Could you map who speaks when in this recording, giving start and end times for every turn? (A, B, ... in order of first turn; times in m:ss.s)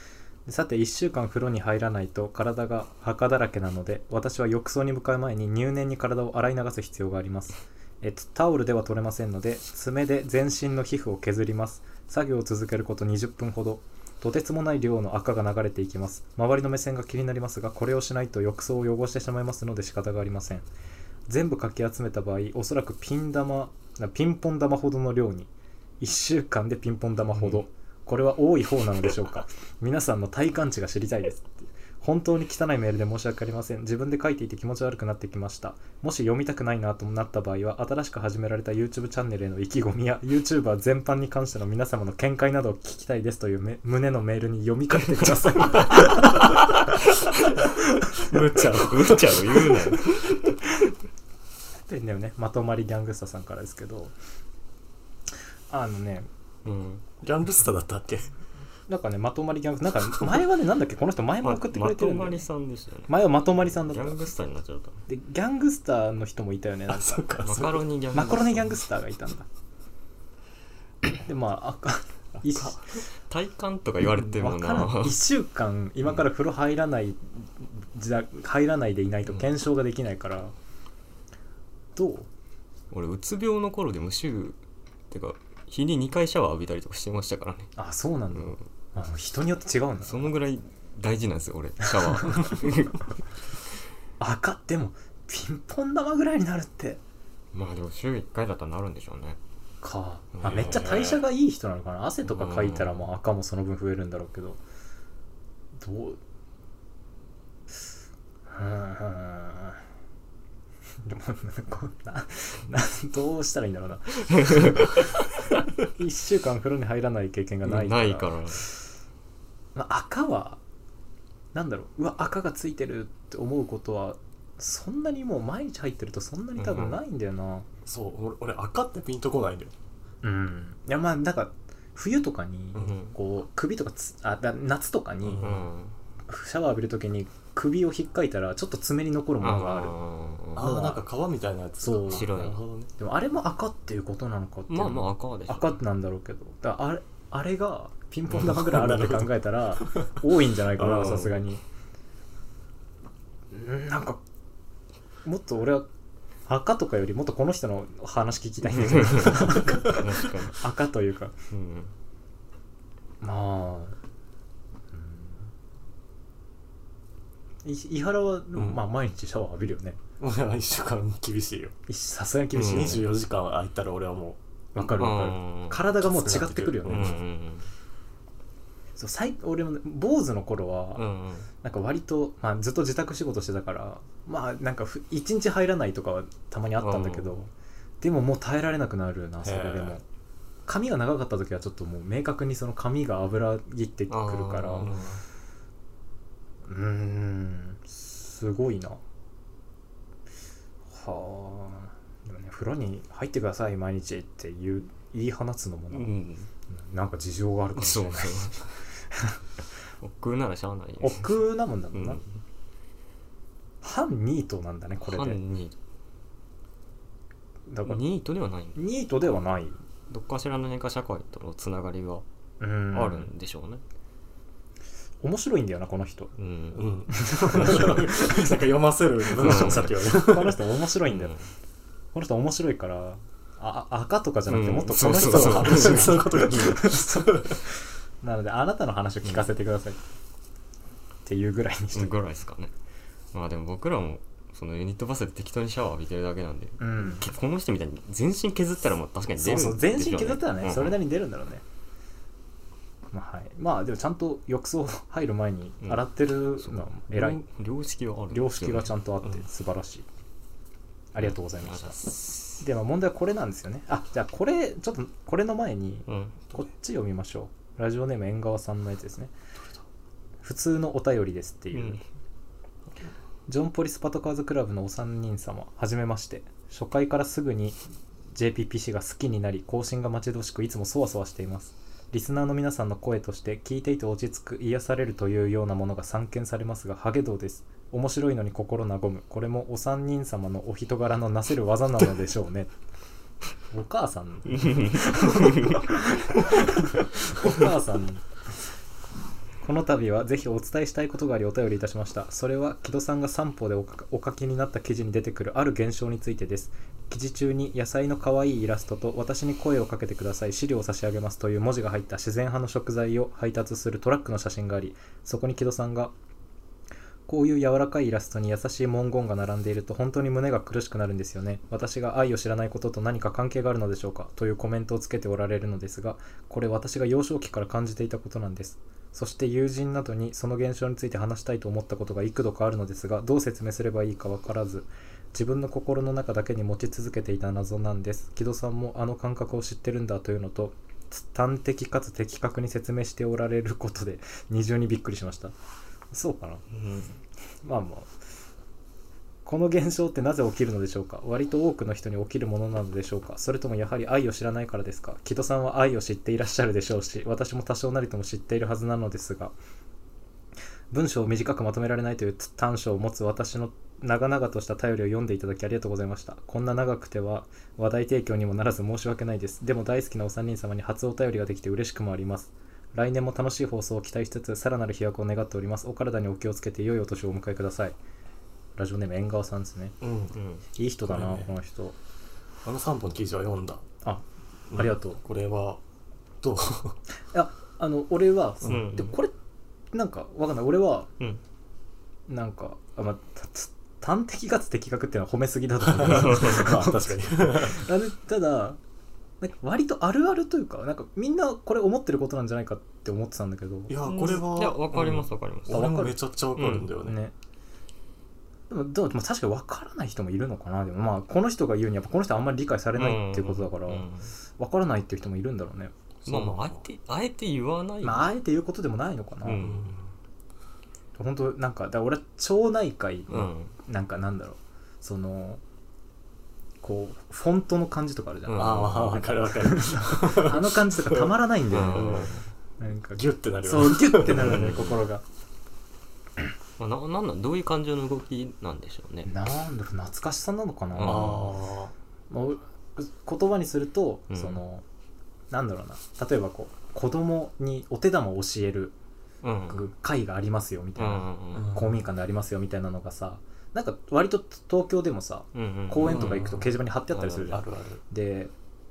0:00.4-0:20.6 A
0:21.3-0:46.5 A
0:27.3-0:27.6 B
0:45.0-0:47.5 B
0:48.3-0:50.4 B
0:48.3-0:49.9 C
0:51.9-0:54.1 A
0:55.7-0:56.3 A
0:56.6-0:57.0 B
0:57.2-0:58.3 C
0:58.9-1:02.4 A
1:01.4-1:05.0 B
1:03.1-1:04.2 A
1:05.1-1:07.2 A
1:06.9-1:07.8 C
1:07.4-1:08.7 B
1:08.1-1:09.4 A
1:11.2-1:12.8 A
1:13.3-1:15.2 B
1:14.2-1:20.5 A
1:22.0-1:22.3 A
1:22.9-1:24.6 B
1:25.1-1:27.7 B
1:27.8-1:30.3 A
1:28.3-1:28.6 B
1:30.0-1:33.1 B
1:34.2-1:37.0 A
1:37.5-1:39.4 B
1:39.8-1:44.6 A
1:40.4-1:40.6 B
1:40.4-1:41.2 C
1:42.2-1:43.0 B
1:45.8-1:46.2 A
1:48.5-1:49.8 A
1:51.0-1:55.0 A
1:55.8-1:58.6 A
1:57.6-1:58.6 B
1:59.7-2:00.6 A
2:01.5-2:07.7 A
2:06.6-2:07.0 B
2:07.8-2:09.7 C
2:10.2-2:15.5 A
2:12.8-2:13.1 B
2:15.2-2:15.7 C
2:15.4-2:15.9 B
2:16.3-2:19.9 A
2:19.4-2:20.7 B
2:20.6-2:22.9 C
2:20.6-2:21.0 A
2:21.8-2:22.4 A
2:22.1-2:22.6 B
2:23.0-2:31.6 A
2:24.7-2:25.8 B
2:28.3-2:30.1 C
2:30.8-2:31.4 B
2:33.5-2:34.2 A
2:35.2-2:35.8 A
2:36.5-2:41.3 A
2:38.7-2:40.6 B
2:41.5-2:41.9 B
2:43.2-2:44.0 A
2:44.9-2:45.4 A
2:47.6-2:50.0 A
2:50.2-2:51.7 C
2:51.9-2:53.1 A
2:52.5-2:53.0 B
2:52.6-2:54.4 C
2:54.7-2:57.2 A
2:54.8-2:55.8 B
2:56.0-2:57.2 C
2:56.8-2:57.7 B
2:59.0-3:01.0 A
3:01.0-3:01.5 B
3:01.6-3:07.5 A
3:06.8-3:07.4 B
3:08.0-3:10.0 A
3:09.4-3:10.0 C
3:10.6-3:14.9 A
3:14.1-3:15.2 B
3:14.8-3:15.2 C
3:16.6-3:19.0 A
3:20.9-3:26.1 A
3:25.9-3:26.5 B
3:26.7-3:28.6 A
3:27.8-3:28.7 B
3:29.1-3:29.4 A
3:30.0-3:31.3 B
3:31.0-3:32.2 A
3:31.9-3:32.3 B
3:33.8-3:35.4 A
3:35.0-3:35.7 B
3:37.7-3:38.0 A
3:37.8-3:38.8 B
3:38.7-3:39.8 A
3:40.1-3:42.2 B
3:42.6-3:43.3 A
3:42.9-3:43.8 B
3:45.2-3:46.3 A
3:46.4-3:46.8 B
3:46.7-3:50.6 C
3:47.1-3:48.4 A
3:49.4-3:49.9 B
3:49.4-3:51.3 A
3:51.1-3:51.4 B
3:52.1-3:57.7 A
3:54.5-3:56.2 B
3:55.1-3:57.6 C
3:58.2-4:00.0 A
4:01.2-4:02.1 A
4:01.9-4:02.7 B
4:03.3-4:11.0 B
4:06.8-4:07.2 A
4:09.4-4:11.6 A
4:13.1-4:17.4 A
4:16.6-4:18.9 B
4:18.3-4:20.0 A
4:21.1-4:29.3 A
4:21.2-4:22.6 B
4:26.1-4:26.4 B
4:30.4-4:32.0 A
4:31.7-4:32.0 B
4:33.5-4:37.8 A
4:38.3-4:52.7 A
4:53.7-4:58.2 A
4:54.5-4:55.8 B
4:59.6-5:16.1 A
5:17.3-5:45.5 A
5:46.1-5:46.6 A
5:47.6-5:48.1 A
5:49.4-5:59.5 A
6:00.9-6:18.0 A
6:18.8-6:20.0 A
6:20.0-6:20.4 C
6:20.3-6:20.6 B
6:20.8-6:22.0 A
6:21.1-6:21.5 C
6:22.6-6:23.8 C
6:24.0-6:25.2 A
6:24.7-6:25.8 C
6:26.4-6:27.0 C
6:27.3-6:29.3 A
6:28.6-6:29.1 B
6:29.9-6:31.1 A
6:32.3-6:38.8 A
6:35.8-6:37.8 C
6:36.1-6:36.8 B
6:39.4-6:44.0 A
6:43.9-6:47.2 C
6:44.0-6:45.9 B
6:45.7-6:46.2 A
6:46.6-6:46.9 B
6:47.0-6:47.3 A
6:48.7-6:54.1 A
6:53.0-6:54.3 B
6:54.6-6:55.9 A
6:56.2-6:56.8 C
6:56.2-6:58.3 B
6:58.0-6:59.6 A
6:59.4-6:59.9 B
6:59.6-7:00.0 C
7:01.2-7:05.6 A
7:03.3-7:03.7 B
7:06.8-7:15.2 A
7:08.5-7:09.2 B
7:08.5-7:11.3 C
7:11.7-7:12.4 B
7:11.8-7:12.4 C
7:13.1-7:14.7 C
7:14.3-7:15.0 B
7:16.8-7:19.3 B
7:19.2-7:21.5 A
7:21.0-7:21.5 B
7:21.0-7:21.9 C
7:22.3-7:24.8 A
7:24.3-7:24.6 B
7:25.5-7:28.9 A
7:29.4-7:29.8 B
7:29.7-7:38.5 A
7:31.0-7:31.7 B
7:31.5-7:32.0 C
7:35.5-7:37.6 B
7:36.0-7:36.7 C
7:37.5-7:38.0 C